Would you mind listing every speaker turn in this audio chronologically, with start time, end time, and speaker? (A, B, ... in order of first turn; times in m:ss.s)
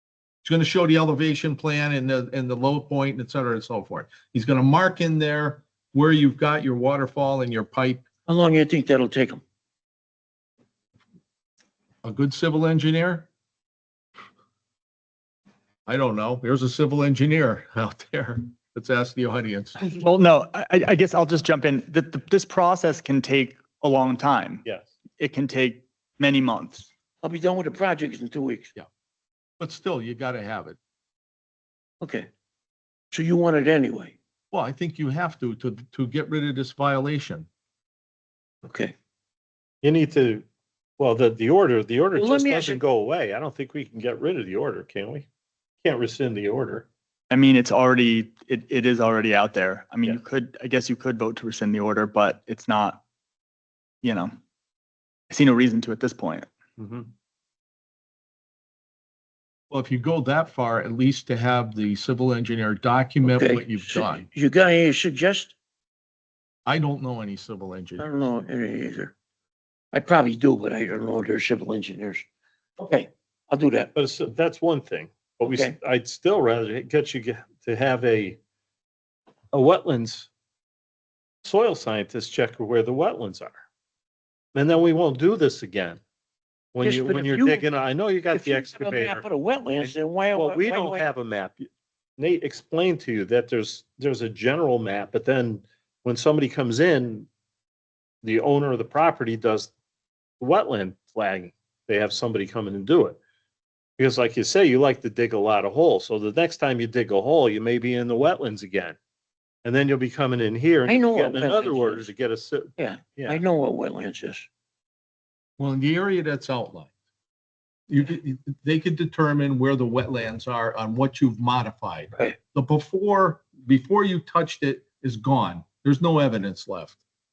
0:00.4-0:08.0 A
0:08.3-0:09.4 B
0:12.0-0:13.3 A
0:15.9-0:19.8 A
0:19.8-0:24.6 C
0:24.6-0:24.9 D
0:25.2-0:26.9 C
0:27.2-0:28.7 B
0:29.6-0:30.8 A
0:32.0-0:32.3 B
0:33.1-0:34.2 B
0:34.5-0:37.5 A
0:38.6-0:38.9 B
0:39.8-0:40.4 D
0:41.0-0:45.3 D
0:42.2-0:42.8 B
0:45.8-0:46.9 D
0:47.3-0:53.0 C
0:54.0-0:54.3 C
0:55.3-0:56.5 C
0:56.8-0:57.1 D
0:59.7-1:04.3 A
1:03.2-1:05.6 B
1:06.7-1:08.1 A
1:08.0-1:09.1 B
1:09.9-1:12.2 B
1:12.8-1:13.9 B
1:14.0-1:18.4 D
1:15.5-1:15.8 B
1:19.5-1:20.3 D
1:21.4-1:23.6 D
1:24.6-1:26.0 D
1:26.7-1:29.3 D
1:26.8-1:27.7 B
1:28.3-1:31.0 B
1:29.8-1:31.7 D
1:32.2-1:37.3 D
1:38.2-1:39.7 D
1:40.4-1:43.2 D
1:44.0-1:49.0 D
1:49.6-1:53.4 D
1:50.9-1:52.1 B
1:52.8-1:54.5 B
1:55.6-1:56.9 A
1:57.9-2:07.0 A